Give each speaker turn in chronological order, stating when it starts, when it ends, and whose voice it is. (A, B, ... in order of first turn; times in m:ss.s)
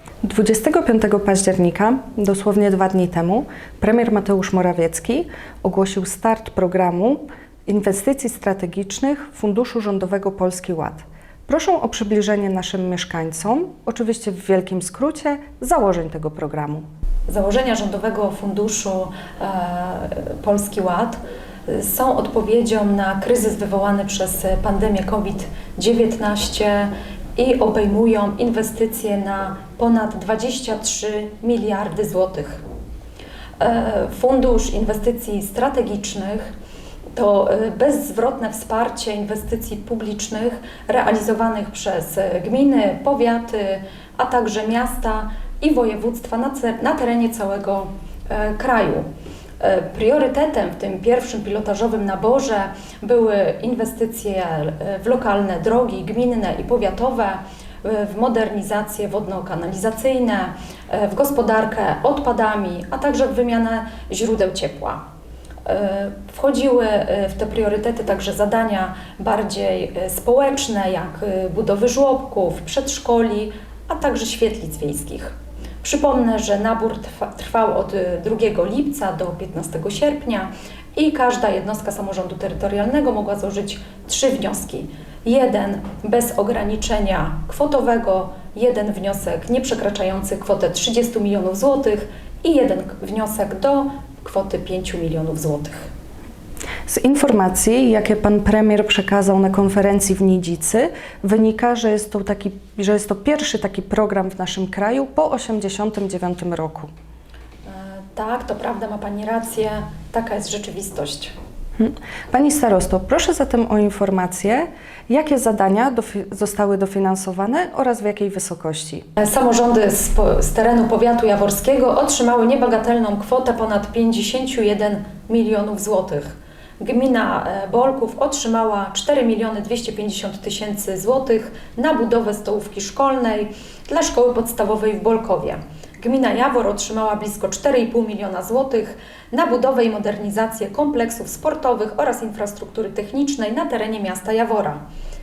0:00.2-0:16.8 A
0:17.3-0:32.6 B
0:33.6-0:36.5 B
0:37.2-0:49.0 B
0:49.6-1:05.0 B
1:05.6-1:35.9 B
1:36.9-1:46.9 A
1:47.7-1:51.3 B
1:51.8-1:59.0 A
1:59.2-2:24.8 B